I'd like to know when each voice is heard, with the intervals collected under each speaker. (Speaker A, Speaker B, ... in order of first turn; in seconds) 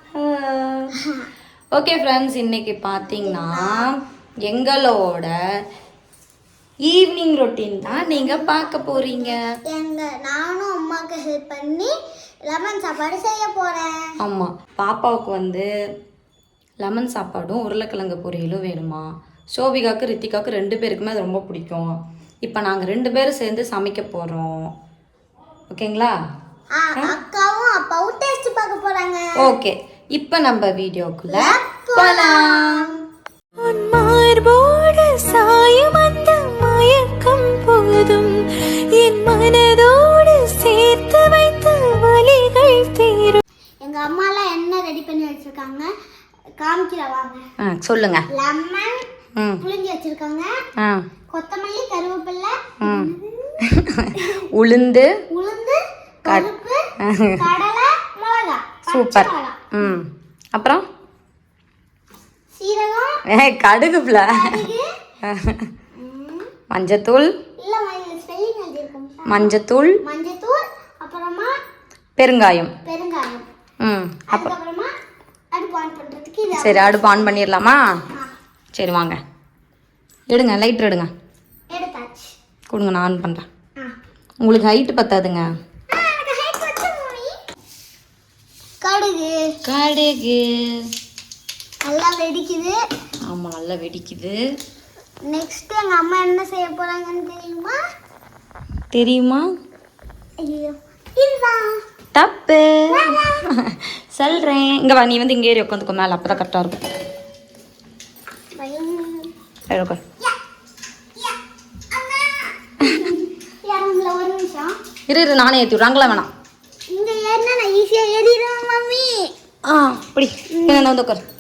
Speaker A: 0.1-0.9, 1.7-5.3, 6.8-9.4, 14.2-15.7, 16.8-24.7, 25.7-26.2, 29.4-32.9, 47.6-48.2, 49.4-49.6, 50.8-51.0, 52.8-55.1, 57.0-57.5, 58.9-60.9, 63.3-64.7, 65.2-65.7, 66.7-67.3, 69.3-70.0, 72.2-72.7, 73.8-74.5, 76.6-77.8, 78.8-79.2, 80.3-81.1, 82.7-83.5, 84.4-85.5, 89.7-90.9, 93.2-94.4, 98.9-99.5, 102.1-106.9, 109.7-110.0, 115.1-116.3, 119.7-121.2
Speaker B: 1.0-1.3, 3.0-3.9, 7.9-11.9, 12.4-14.1, 26.8-29.3, 31.3-33.0, 43.8-45.9, 46.6-47.5, 48.3-49.1, 49.6-50.5, 51.3-54.5, 55.3-59.7, 62.5-63.2, 64.3-64.9, 66.0-66.5, 67.6-69.5, 70.0-71.6, 72.8-73.5, 74.3-74.9, 75.5-77.5, 81.7-82.3, 85.9-87.4, 88.8-89.5, 91.8-92.8, 95.2-97.8, 100.4-101.8, 102.9-103.4, 108.5-109.3, 111.9-114.8, 116.9-119.3, 120.5-120.9
Speaker C: 33.6-43.4